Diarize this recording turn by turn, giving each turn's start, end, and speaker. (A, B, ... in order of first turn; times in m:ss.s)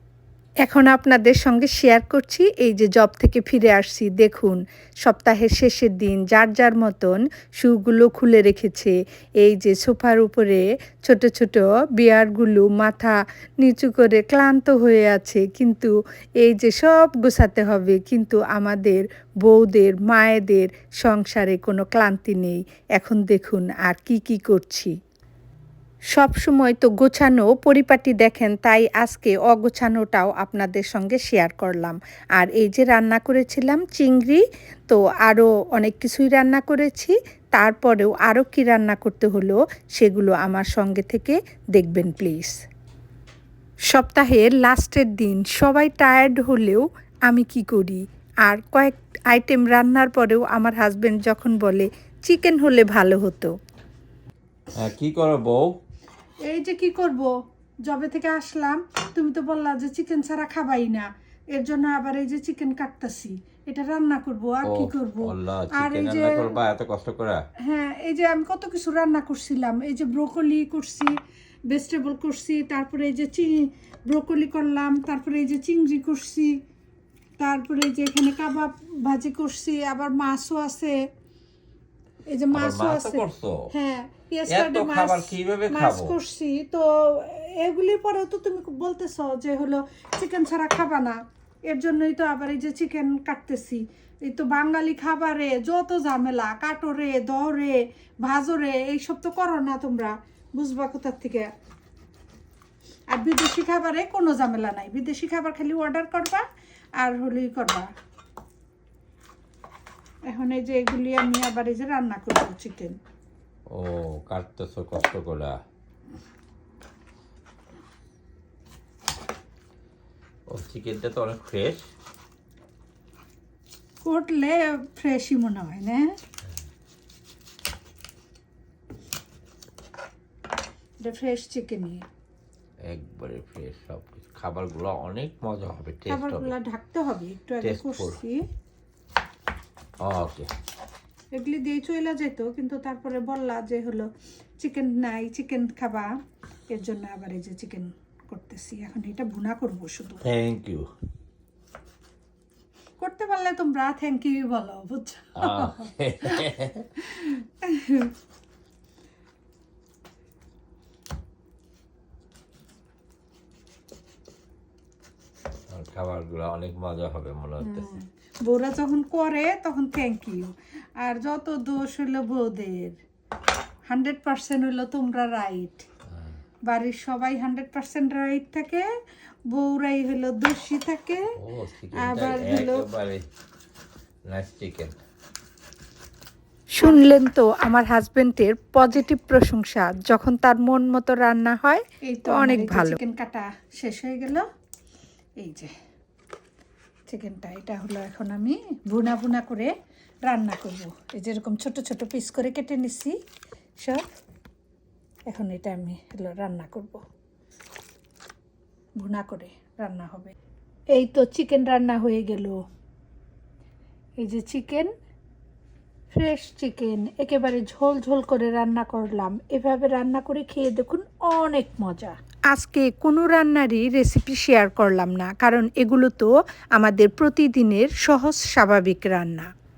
0:00.6-0:24.9 A
0:26.1-0:42.6 A
0:43.9-0:53.5 A
0:54.7-0:55.8 B
0:56.4-0:57.3 C
0:57.8-1:06.5 C
1:04.6-1:07.4 B
1:07.6-1:11.2 C
1:11.7-1:16.5 C
1:17.4-1:21.0 C
1:22.3-1:31.2 C
1:22.5-1:23.7 B
1:24.5-1:26.2 B
1:31.7-1:41.5 C
1:43.1-1:46.4 C
1:47.0-1:47.9 C
1:50.3-1:53.0 C
1:53.7-1:55.6 B
2:00.5-2:01.8 B
2:04.0-2:06.1 C
2:11.0-2:12.0 C
2:12.9-2:16.5 B
2:16.1-2:18.4 C
2:17.6-2:18.2 B
2:20.0-2:20.5 B
2:21.3-2:26.1 C
2:26.7-2:30.2 C
2:30.2-2:30.9 B
2:33.0-2:36.5 C
2:35.4-2:36.9 B
2:37.0-2:38.1 C
2:45.7-2:47.9 B
2:47.6-2:53.0 C
2:53.9-2:55.8 C
2:56.7-2:58.8 C
2:59.5-3:01.2 C
3:01.4-3:03.2 B
3:01.9-3:02.8 C
3:04.3-3:04.9 B
3:06.7-3:13.0 A
3:06.8-3:07.1 C
3:12.0-3:14.4 C
3:15.4-3:15.7 C
3:17.1-3:19.7 C
3:20.2-3:23.1 C
3:25.3-3:27.0 C
3:29.0-3:30.3 C
3:30.9-3:32.6 C
3:34.2-3:34.9 C
3:36.1-3:42.2 C
3:42.5-3:49.5 A